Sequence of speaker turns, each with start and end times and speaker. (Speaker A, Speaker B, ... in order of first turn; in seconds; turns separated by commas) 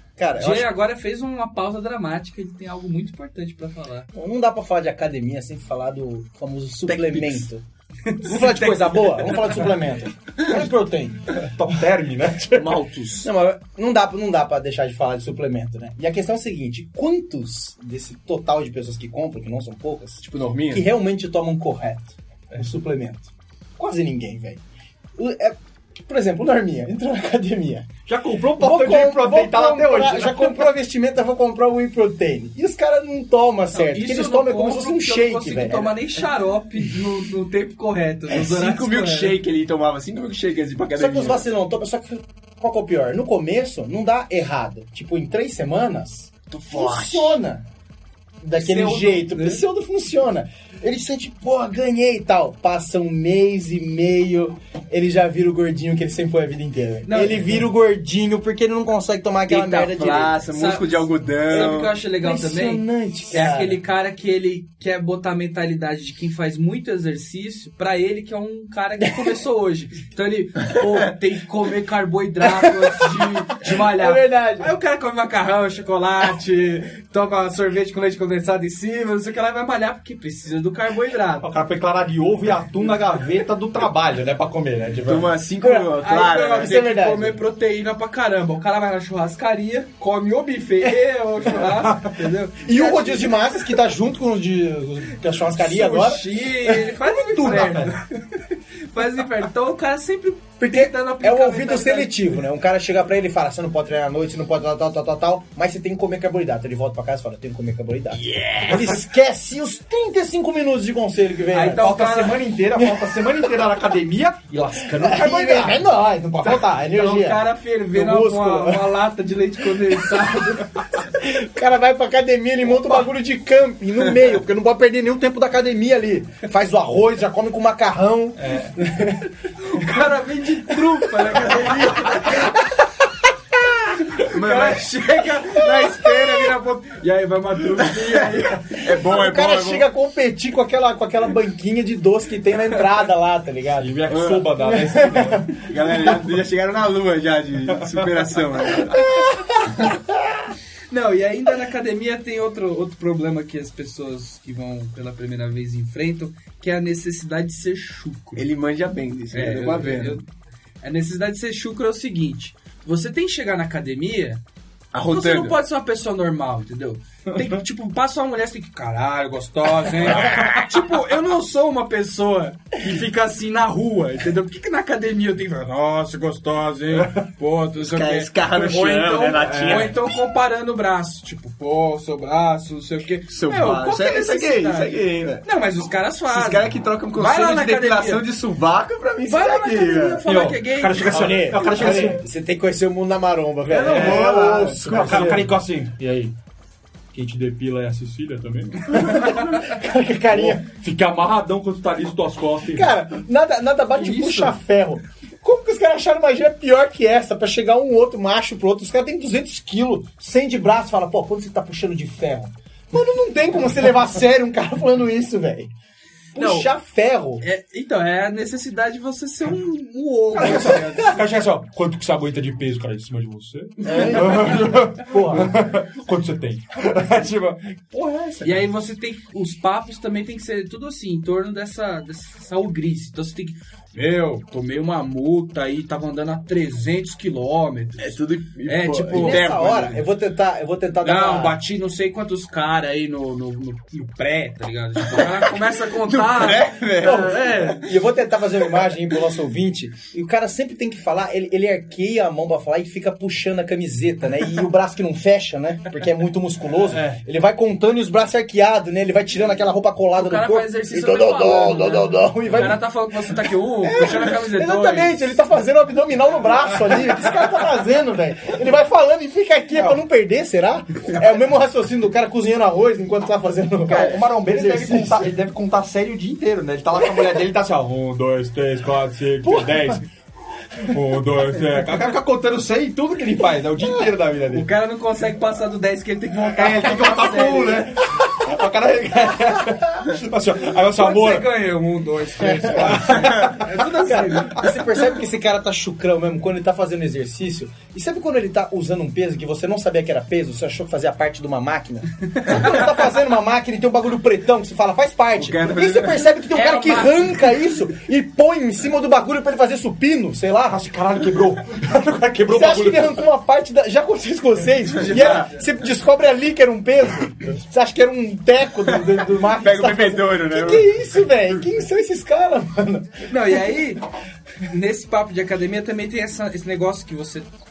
Speaker A: 0.2-0.7, Speaker B: 0.4-4.1, Speaker A: 4.1-7.6, Speaker C: 6.9-7.5, Speaker B: 8.1-9.4, Speaker A: 8.2-11.4, Speaker D: 11.4-12.8, Speaker C: 12.5-13.3, Speaker A: 13.2-24.6, Speaker C: 20.2-20.9, Speaker A: 25.2-27.9, Speaker D: 28.1-30.7, Speaker A: 28.6-36.0, Speaker B: 33.7-39.4, Speaker C: 38.3-41.5, Speaker A: 41.0-47.6, Speaker C: 46.5-47.4, Speaker A: 48.4-60.4, Speaker B: 48.5-49.6, Speaker B: 57.1-57.4, Speaker C: 59.5-61.9, Speaker B: 60.5-81.5, Speaker A: 61.5-63.8, Speaker A: 73.7-74.7, Speaker D: 81.4-85.3, Speaker C: 85.0-86.8, Speaker A: 85.6-87.4, Speaker B: 86.0-93.3, Speaker D: 91.8-92.1, Speaker A: 92.6-96.9, Speaker B: 95.6-102.2, Speaker D: 97.1-97.9, Speaker A: 100.6-112.0, Speaker B: 108.3-108.7, Speaker B: 111.5-112.4, Speaker D: 111.7-115.9, Speaker A: 112.8-113.3, Speaker A: 114.8-119.0, Speaker B: 116.4-120.8, Speaker A: 121.0-129.2, Speaker D: 128.4-128.8, Speaker B: 129.6-132.5, Speaker B: 134.2-138.8, Speaker C: 134.3-134.9, Speaker C: 138.7-139.9, Speaker A: 138.9-144.0, Speaker D: 143.8-145.6, Speaker C: 144.1-144.5, Speaker A: 144.6-145.5, Speaker C: 145.6-149.1, Speaker B: 150.9-158.5, Speaker C: 158.4-160.2, Speaker B: 159.3-160.3, Speaker B: 160.8-164.4, Speaker C: 164.9-165.6, Speaker B: 165.1-188.2, Speaker C: 170.2-170.6, Speaker C: 177.8-179.9, Speaker D: 178.7-179.9, Speaker C: 183.3-185.4, Speaker C: 186.3-190.2, Speaker B: 189.3-192.0, Speaker D: 190.2-192.2, Speaker A: 191.0-195.5, Speaker C: 193.7-195.3, Speaker D: 193.8-196.3, Speaker D: 197.1-199.4, Speaker A: 198.9-200.6, Speaker D: 200.3-202.9, Speaker A: 202.7-215.7, Speaker B: 204.0-204.5, Speaker A: 216.3-217.4, Speaker B: 216.4-216.7, Speaker B: 217.4-221.2, Speaker D: 220.3-228.7, Speaker A: 223.8-225.6, Speaker B: 228.4-239.4, Speaker C: 238.0-240.0, Speaker A: 239.1-241.6, Speaker B: 241.0-247.8, Speaker C: 245.1-247.8, Speaker A: 247.0-262.8, Speaker B: 260.2-265.3, Speaker A: 263.8-275.3, Speaker D: 273.9-280.1, Speaker A: 279.4-280.0, Speaker D: 280.8-284.7, Speaker B: 284.5-287.9, Speaker D: 286.5-291.5, Speaker B: 290.9-294.6, Speaker D: 292.6-293.7, Speaker A: 293.9-310.8, Speaker C: 305.4-306.3, Speaker B: 306.5-307.6, Speaker D: 310.7-313.2, Speaker A: 312.5-323.3, Speaker B: 314.9-315.7, Speaker C: 315.1-315.4, Speaker C: 319.0-320.9, Speaker B: 323.3-324.0, Speaker B: 324.7-327.5